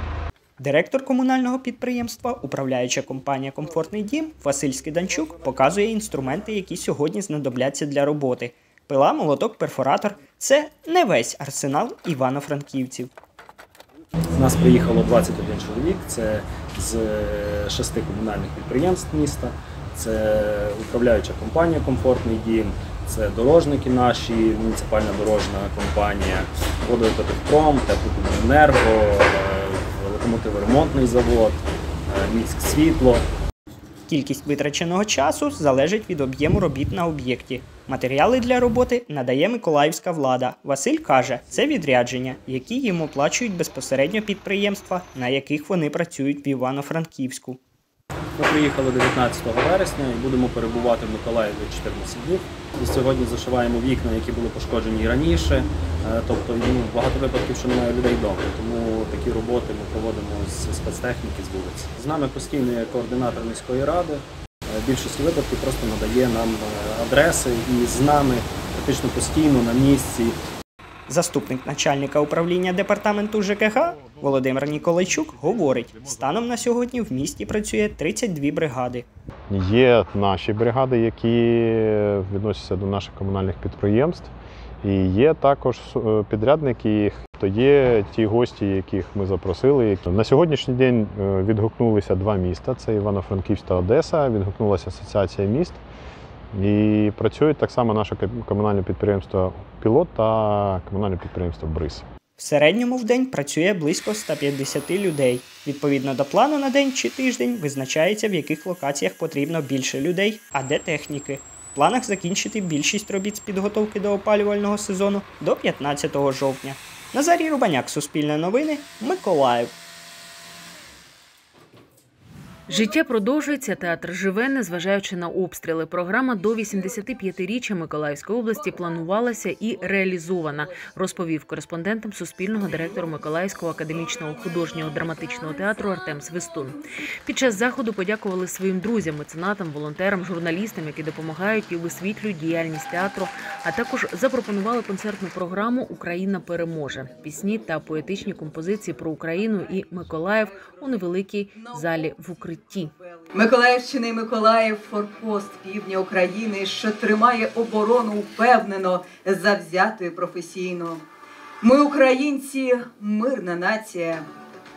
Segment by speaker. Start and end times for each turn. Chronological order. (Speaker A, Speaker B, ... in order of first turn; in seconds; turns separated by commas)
Speaker A: 0.6-13.1, Speaker B: 14.3-33.3, Speaker A: 34.1-47.6, Speaker B: 48.4-70.4, Speaker A: 71.1-79.1, Speaker C: 79.6-81.7, Speaker C: 82.3-84.3, Speaker C: 84.8-95.8, Speaker C: 96.7-102.0, Speaker A: 102.4-119.7, Speaker D: 122.7-152.9, Speaker E: 153.3-161.0, Speaker E: 161.6-164.3